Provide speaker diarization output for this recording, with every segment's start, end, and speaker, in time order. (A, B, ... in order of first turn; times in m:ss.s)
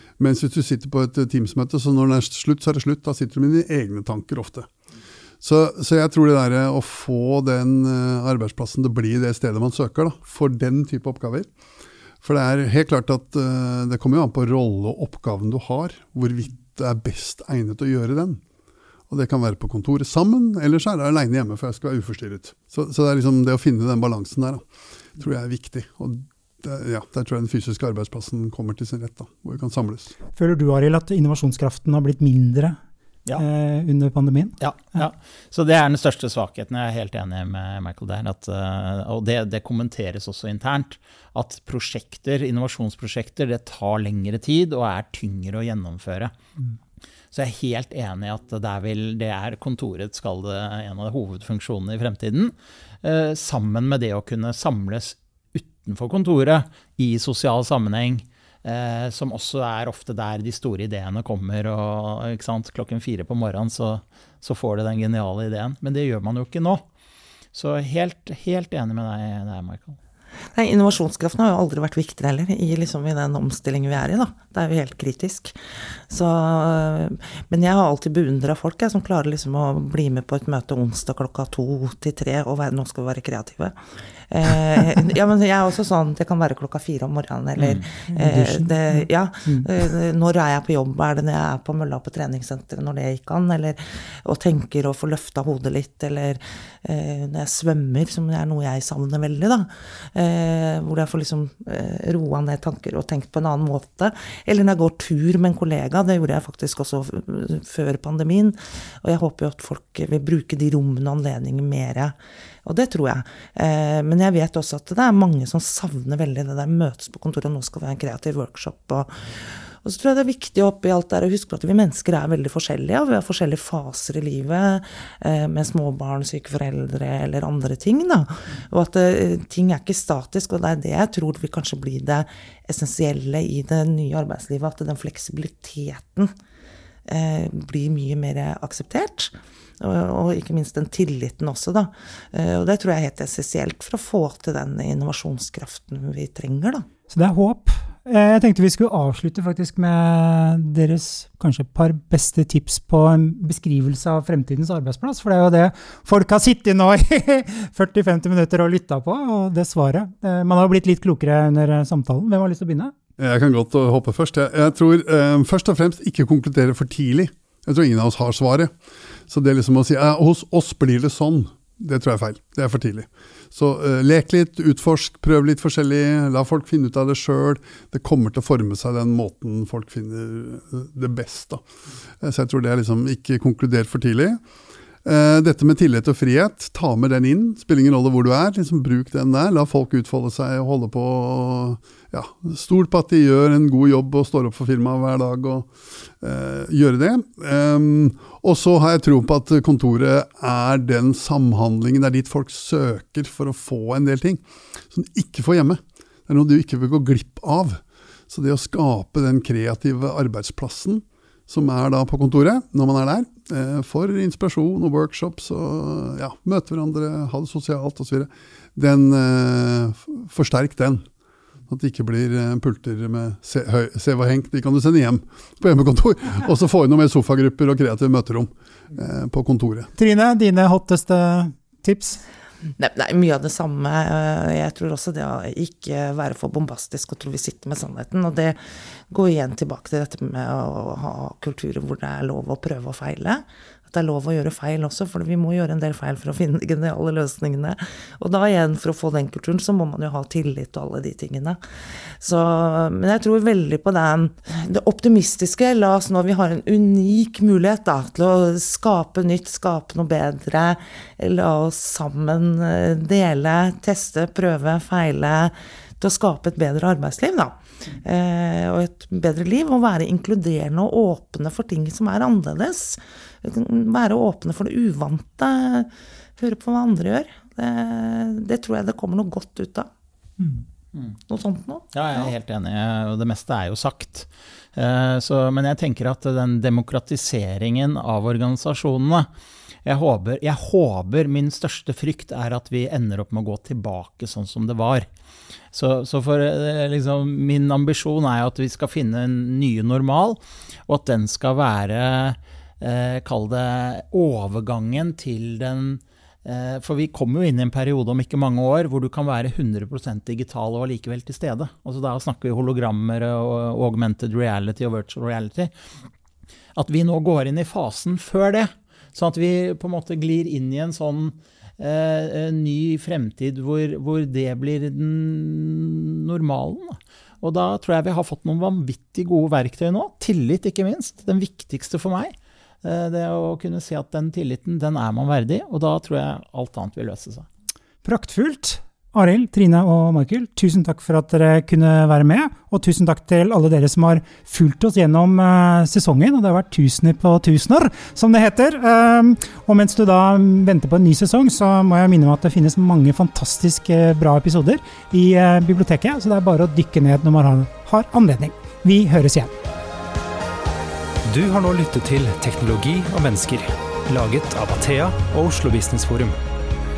0:00.2-0:04.7 A
0:05.4-0:11.5 A
0:12.2-0:18.4 A
0:19.1-0:24.6 A
0:25.2-0:30.1 A
0:30.3-0:32.8 B
0:33.4-0:34.6 B
0:34.6-0:46.3 C
0:47.3-1:06.8 C
1:07.5-1:10.0 C
1:10.5-1:15.5 D
1:16.1-1:23.8 D
1:24.3-1:59.1 D
1:27.6-1:27.8 C
1:28.1-1:29.7 B
1:59.8-2:16.3 D
2:17.1-2:26.8 D
2:27.1-2:42.9 B
2:43.2-2:48.7 A
2:49.3-3:01.6 A
3:02.2-3:04.4 A
3:05.0-3:41.0 A
3:41.7-3:49.9 A
3:50.0-3:52.2 B
3:52.8-3:58.6 D
3:59.1-4:11.6 D
4:12.2-4:39.9 D
4:41.3-4:42.3 D
4:41.9-4:49.3 C
4:49.8-4:55.1 C
4:55.7-5:15.7 C
5:16.8-5:32.3 C
5:32.8-5:37.5 C
5:38.0-5:59.5 B
6:01.2-6:06.3 E